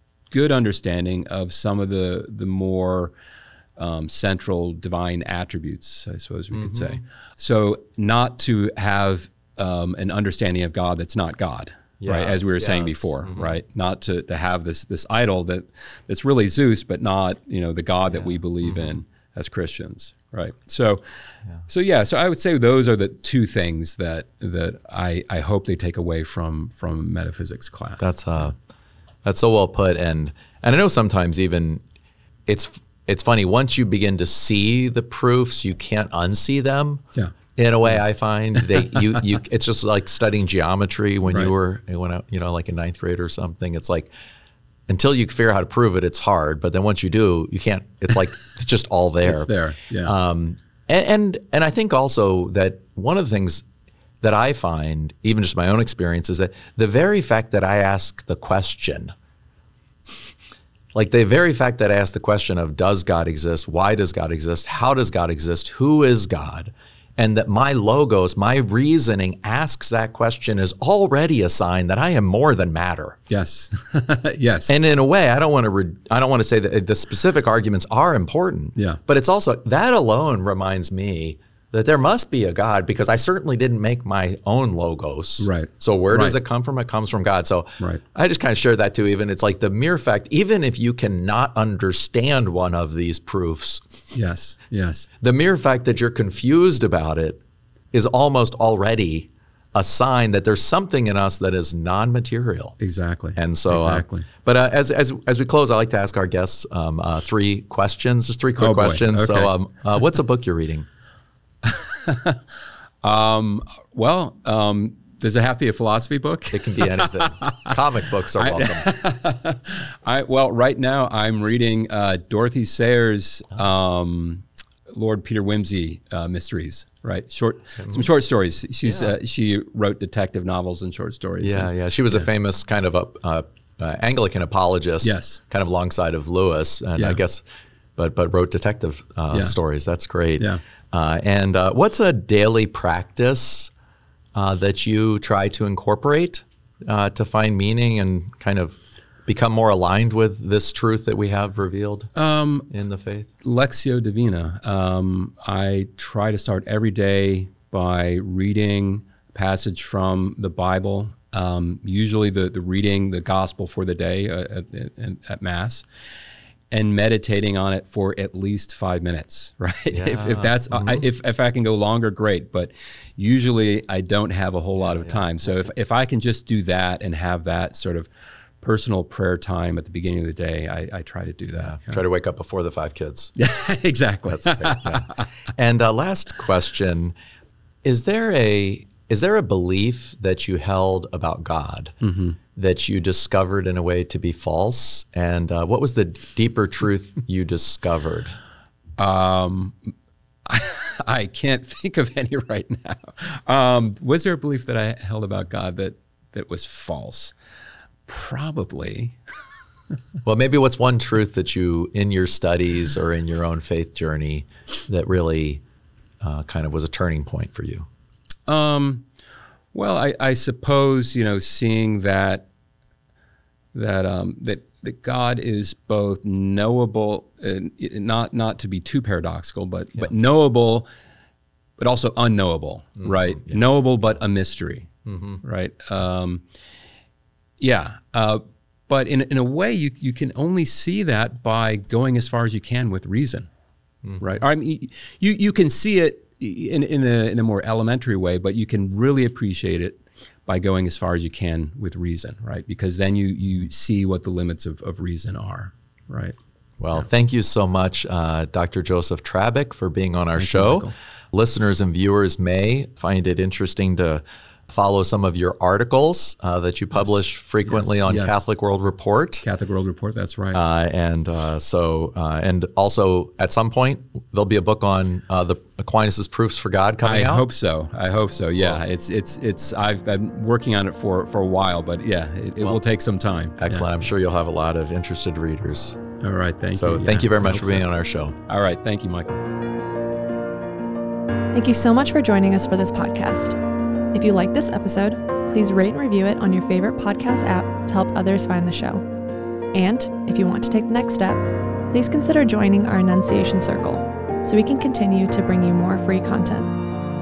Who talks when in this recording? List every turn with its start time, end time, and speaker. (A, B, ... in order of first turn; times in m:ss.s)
0:00.3-0:03.1 A
0:03.8-0:21.0 A
0:06.5-0:07.0 B
0:12.0-0:13.6 B
0:18.1-0:18.9 B
0:21.7-0:28.2 A
0:28.0-0:28.6 B
0:29.2-0:31.8 B
0:32.5-0:37.0 B
0:37.6-0:44.1 B
0:41.3-0:41.5 A
0:44.9-0:53.6 B
0:49.2-0:50.1 A
0:54.2-0:59.1 B
1:00.9-1:13.2 B
1:13.3-1:14.8 A
1:14.7-1:34.1 B
1:18.8-1:19.0 A
1:25.4-1:26.4 A
1:34.1-1:35.1 A
1:35.2-1:37.4 B
1:37.9-1:42.8 B
1:42.8-1:44.3 A
1:43.4-1:50.9 B
1:48.6-1:49.5 A
1:51.6-1:52.4 A
1:53.0-1:57.8 A
1:56.5-1:58.9 B
1:58.4-2:12.2 A
2:07.8-2:08.1 B
2:08.8-2:09.2 B
2:11.4-2:17.4 B
2:15.0-2:15.4 A
2:18.0-2:23.7 B
2:24.3-2:32.1 B
2:32.2-2:32.7 A
2:32.7-2:33.3 B
2:33.4-2:45.9 A
2:46.7-2:58.1 A
2:49.9-2:51.0 B
2:54.9-2:55.2 B
2:58.6-3:02.0 A
3:01.6-3:03.3 B
3:03.4-3:05.2 A
3:04.3-3:07.2 B
3:07.8-3:12.0 B
3:12.0-3:12.4 A
3:12.6-3:18.4 B
3:19.0-3:19.8 A
3:20.5-3:27.3 A
3:28.1-3:29.2 A
3:30.2-3:35.6 B
3:36.2-3:37.9 B
3:38.5-3:39.1 A
3:39.7-3:42.5 A
3:43.7-3:50.9 A
3:51.8-3:56.4 A
3:53.0-3:53.6 B
3:55.1-3:55.4 B
3:57.6-4:03.5 A
4:04.2-4:16.4 A
4:16.8-4:29.5 B
4:20.4-4:20.9 A
4:27.7-4:28.4 A
4:29.4-4:30.6 A
4:30.5-4:37.5 B
4:37.0-4:43.9 A
4:43.6-4:46.0 B
4:46.2-4:47.9 A
4:46.7-4:48.4 B
4:48.5-4:49.4 A
4:51.5-4:53.6 C
4:54.1-4:59.0 C
4:59.7-5:06.7 C